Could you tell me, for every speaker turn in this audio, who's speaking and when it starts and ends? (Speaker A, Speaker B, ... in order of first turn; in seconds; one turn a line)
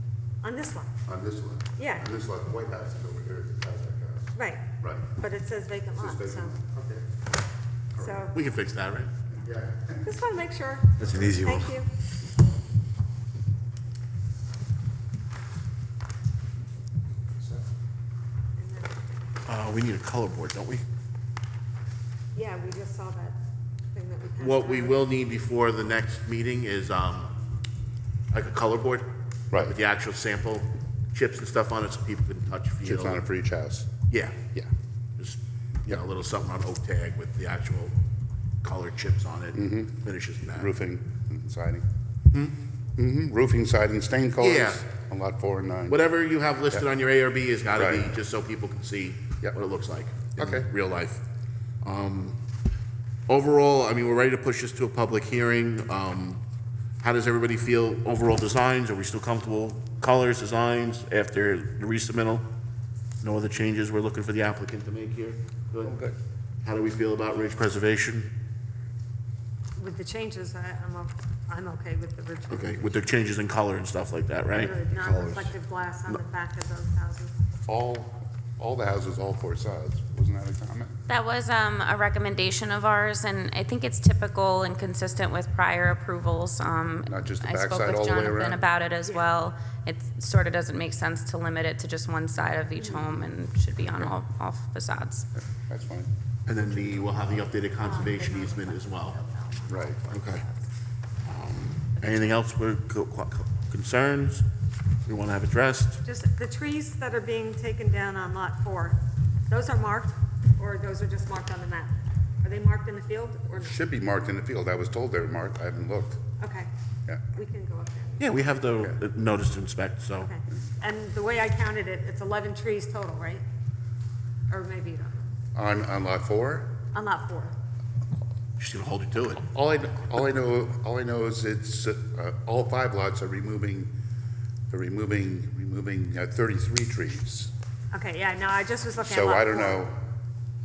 Speaker A: 0.4-0.9
Speaker B: 1.1-5.1
Speaker A: 1.8-2.0
Speaker A: 4.3-6.5
Speaker B: 6.0-7.0
Speaker B: 7.9-8.2
Speaker A: 8.0-8.3
Speaker C: 8.3-9.1
Speaker B: 9.3-10.0
Speaker A: 10.0-11.9
Speaker C: 11.0-11.5
Speaker B: 17.3-17.6
Speaker A: 18.6-19.3
Speaker C: 19.4-20.8
Speaker A: 22.3-23.4
Speaker A: 23.9-25.1
Speaker C: 24.4-27.3
Speaker C: 28.3-33.2
Speaker B: 32.8-33.9
Speaker C: 34.1-34.4
Speaker C: 35.2-37.9
Speaker C: 38.6-40.7
Speaker B: 39.5-40.0
Speaker B: 40.5-41.9
Speaker C: 42.3-42.6
Speaker B: 43.0-46.0
Speaker C: 44.4-44.8
Speaker C: 45.9-51.2
Speaker B: 47.7-48.1
Speaker B: 50.4-50.7
Speaker C: 51.8-52.4
Speaker C: 53.3-56.4
Speaker C: 57.0-62.4
Speaker C: 63.2-66.0
Speaker B: 65.8-66.1
Speaker C: 66.6-68.3
Speaker A: 69.8-73.2
Speaker C: 72.5-74.8
Speaker A: 74.5-77.3
Speaker B: 74.9-75.5
Speaker B: 77.7-81.0
Speaker D: 81.1-95.3
Speaker B: 87.1-88.6
Speaker B: 92.9-93.2
Speaker B: 95.5-96.1
Speaker C: 96.5-99.2
Speaker A: 97.8-99.9
Speaker B: 99.7-100.1
Speaker C: 99.9-100.5
Speaker C: 101.2-104.5
Speaker C: 105.0-106.0
Speaker A: 106.0-113.8
Speaker B: 113.5-116.2
Speaker A: 116.4-116.7
Speaker A: 117.3-118.3
Speaker C: 118.2-120.3
Speaker A: 120.2-123.4
Speaker A: 124.5-125.2
Speaker B: 125.5-126.8
Speaker A: 126.9-127.5
Speaker C: 128.6-129.4
Speaker B: 129.4-133.9
Speaker B: 134.7-137.5
Speaker A: 137.9-139.8
Speaker B: 139.0-140.0